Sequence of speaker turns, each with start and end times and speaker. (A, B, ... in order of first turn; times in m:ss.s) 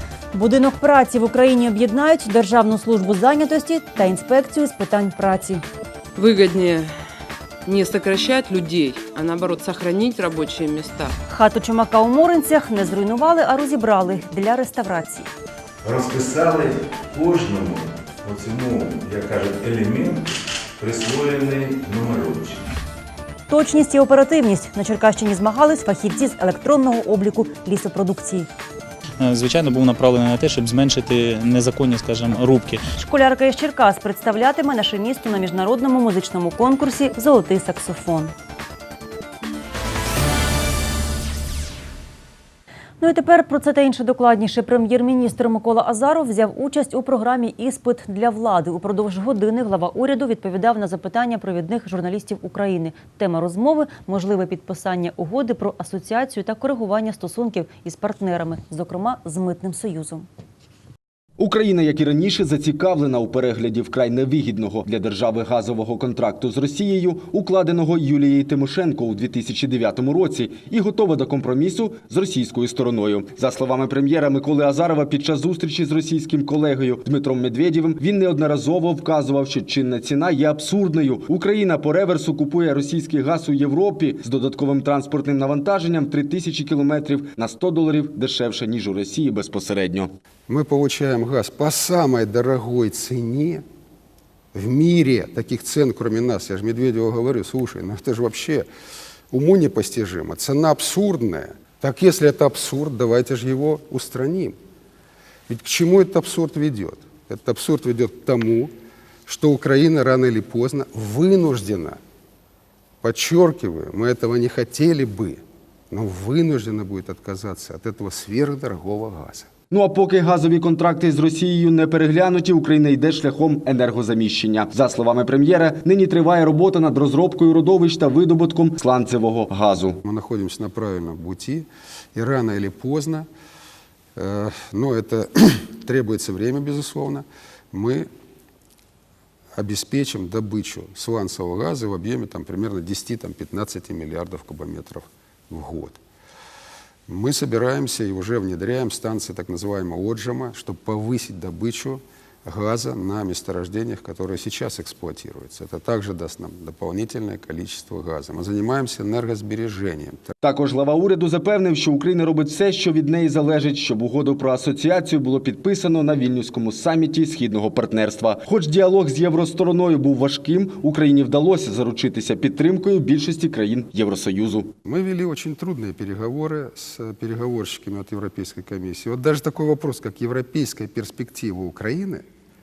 0:00.3-0:05.6 A
0:06.2-0:06.9 B
0:07.6-0:11.1 B
0:11.3-0:15.3 A
0:15.8-0:22.7 C
0:23.5-0:28.5 A
0:29.2-0:32.8 D
0:33.0-0:38.3 A
0:43.0-1:00.3 A
1:01.4-1:30.1 E
1:30.5-1:33.6 F
1:34.5-1:38.7 F
1:39.3-1:44.6 F
1:45.5-1:48.7 F
1:49.3-1:52.0 F
1:53.0-1:59.5 F
1:59.7-2:10.0 E
2:10.0-2:13.3 F
2:14.2-2:18.1 F
2:19.5-2:26.0 F
2:27.1-2:40.3 F
2:40.4-2:54.7 E
2:54.8-3:02.2 F